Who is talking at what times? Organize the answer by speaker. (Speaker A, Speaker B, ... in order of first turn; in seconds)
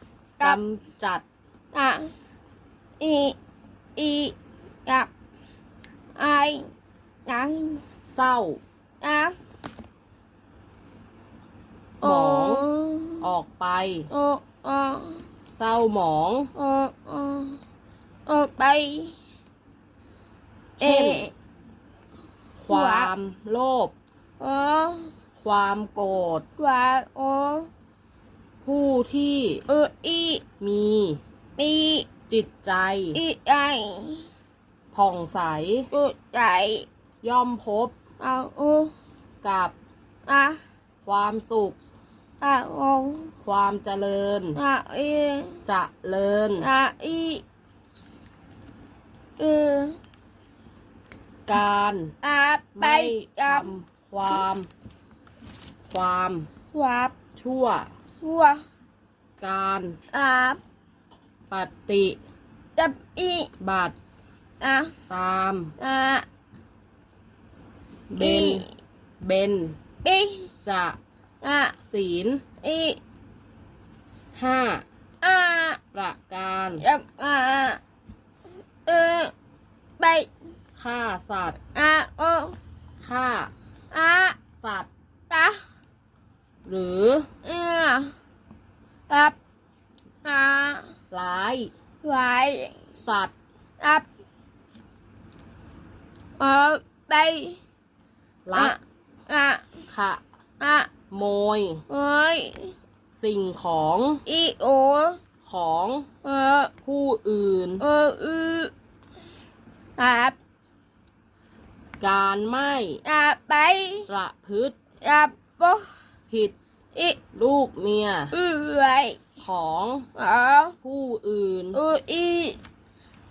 Speaker A: 0.4-1.2, 8.1-8.6, 12.0-12.7, 13.2-14.1, 15.6-16.5, 20.8-21.3, 22.6-23.9, 25.4-26.4, 28.6-29.6, 30.6-31.2, 32.3-33.2, 34.9-35.9, 37.2-37.9, 39.4-39.7, 41.0-41.8, 43.4-44.6, 45.7-46.7, 51.5-52.1, 52.8-54.7, 55.9-56.5, 57.4-57.9, 59.4-60.0, 61.5-62.2, 63.6-64.0, 65.1-65.7, 68.1-68.7, 69.2-69.8, 70.7-71.0, 71.9-72.4, 74.3-74.8, 75.9-76.8, 80.8-81.6, 83.0-83.5, 84.6-84.9, 86.7-87.3, 91.1-91.7, 93.0-93.3, 98.5-98.8, 99.9-100.2, 101.1-101.8, 103.2-104.2, 105.4-106.1, 106.8-107.8, 112.0-113.0, 114.1-114.8, 116.3-116.5, 117.3-118.3, 119.4-120.1, 120.8-121.8
Speaker B: 1.7-2.1, 3.0-3.4, 4.0-5.1, 6.2-6.7, 7.3-7.8, 9.0-9.3, 12.0-13.3, 14.1-15.2, 16.6-17.6, 18.3-19.2, 20.8-21.3, 22.7-23.1, 24.4-25.1, 26.6-27.7, 29.7-30.4, 31.6-32.1, 33.1-34.2, 35.9-36.9, 38.2-38.9, 40.3-40.6, 42.4-43.3, 44.5-45.6, 46.6-47.4, 49.4-50.0, 52.2-53.7, 56.7-57.1, 58.2-58.6, 60.1-60.6, 62.8-63.5, 64.6-64.9, 65.8-66.3, 68.2-68.7, 70.0-70.5, 71.4-71.8, 72.6-73.0, 75.2-75.8, 76.8-77.8, 78.8-79.3, 80.0-80.3, 81.8-82.6, 83.9-84.4, 85.3-85.6, 87.4-88.1, 89.1-89.4, 90.2-90.9, 92.0-92.8, 93.8-94.1, 96.4-97.6, 98.5-99.7, 100.6-100.9, 101.9-102.7, 104.3-105.2, 106.2-106.7, 107.8-108.7, 110.0-110.4, 113.0-114.1, 115.0-115.9, 118.3-119.2, 120.2-120.8, 121.7-122.6